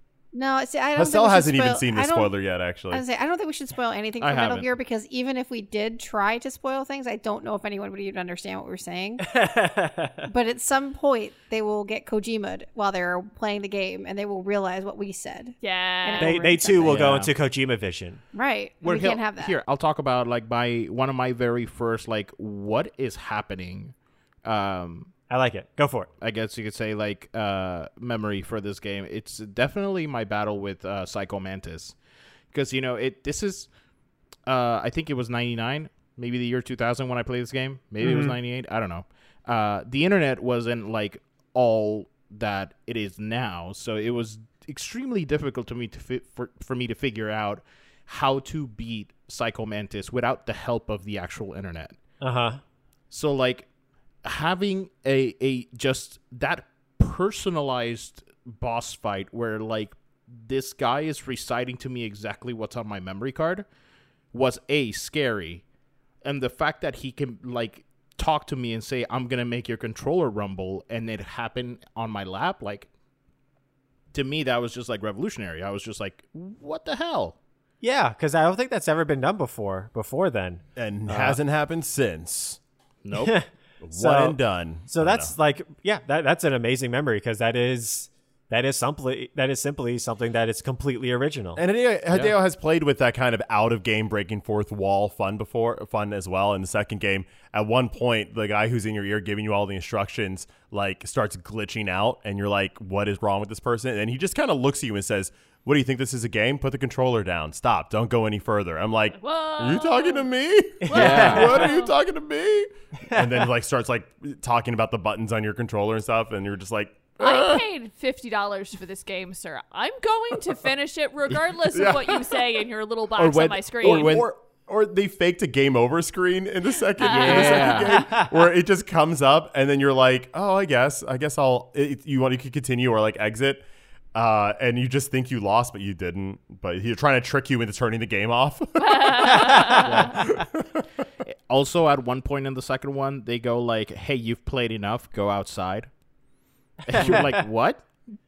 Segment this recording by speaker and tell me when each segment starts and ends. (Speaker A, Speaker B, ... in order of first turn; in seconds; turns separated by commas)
Speaker A: 0.3-2.3, Speaker B: 0.9-3.0, Speaker A: 2.9-9.3, Speaker C: 4.2-4.7, Speaker D: 9.2-10.3, Speaker A: 10.3-17.0, Speaker E: 15.6-16.4, Speaker D: 16.2-18.2, Speaker C: 16.8-17.3, Speaker A: 18.3-19.5, Speaker C: 18.8-25.1, Speaker D: 25.3-26.1, Speaker C: 26.2-31.9, Speaker C: 32.5-33.7, Speaker C: 34.5-52.0, Speaker D: 38.0-38.4, Speaker D: 52.2-52.6, Speaker C: 53.1-53.7, Speaker C: 54.2-63.6, Speaker C: 64.3-65.6, Speaker C: 66.2-72.9, Speaker C: 74.1-77.3, Speaker D: 77.8-81.4, Speaker B: 80.8-82.6, Speaker C: 83.0-83.3, Speaker D: 83.2-91.6, Speaker B: 83.8-85.3, Speaker B: 91.5-117.6, Speaker E: 109.2-110.3, Speaker D: 110.8-111.7, Speaker E: 110.8-111.9, Speaker C: 110.9-111.6, Speaker E: 117.2-124.2, Speaker B: 121.7-122.4, Speaker C: 123.2-124.3, Speaker B: 123.8-140.9, Speaker E: 127.0-128.0, Speaker C: 127.0-128.1, Speaker E: 138.8-140.1, Speaker D: 139.3-139.8, Speaker C: 139.8-140.2, Speaker C: 141.3-145.9, Speaker D: 146.9-147.4, Speaker C: 146.9-147.8